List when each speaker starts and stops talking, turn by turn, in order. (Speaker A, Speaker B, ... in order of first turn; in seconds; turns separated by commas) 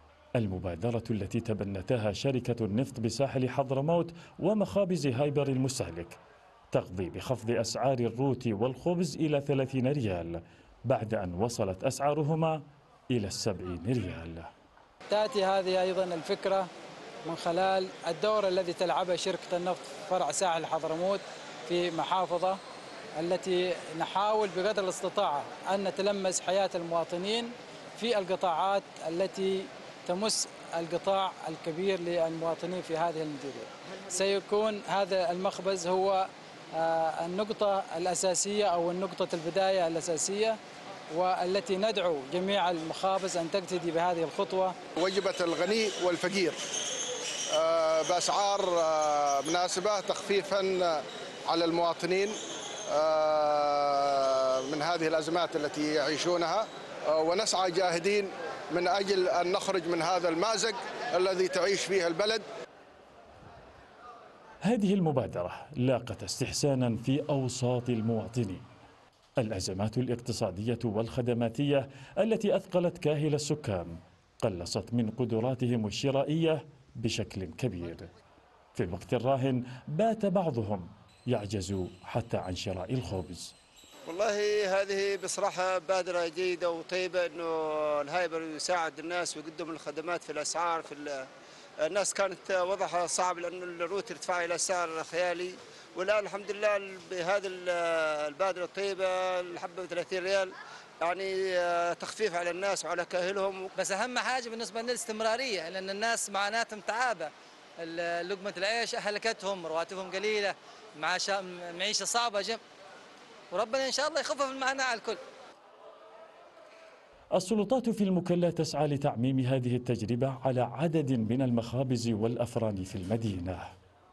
Speaker A: 0.4-6.2, Speaker A: 6.7-14.5, Speaker B: 15.1-16.7, Speaker B: 17.2-22.6, Speaker B: 23.2-40.6, Speaker B: 41.1-44.8, Speaker C: 45.0-46.6, Speaker C: 47.5-52.4, Speaker C: 52.9-62.4, Speaker A: 64.6-68.6, Speaker A: 69.4-78.1, Speaker A: 78.7-83.5, Speaker D: 84.1-91.3, Speaker D: 91.8-103.7, Speaker E: 103.7-112.6, Speaker E: 113.5-115.2, Speaker A: 117.3-123.7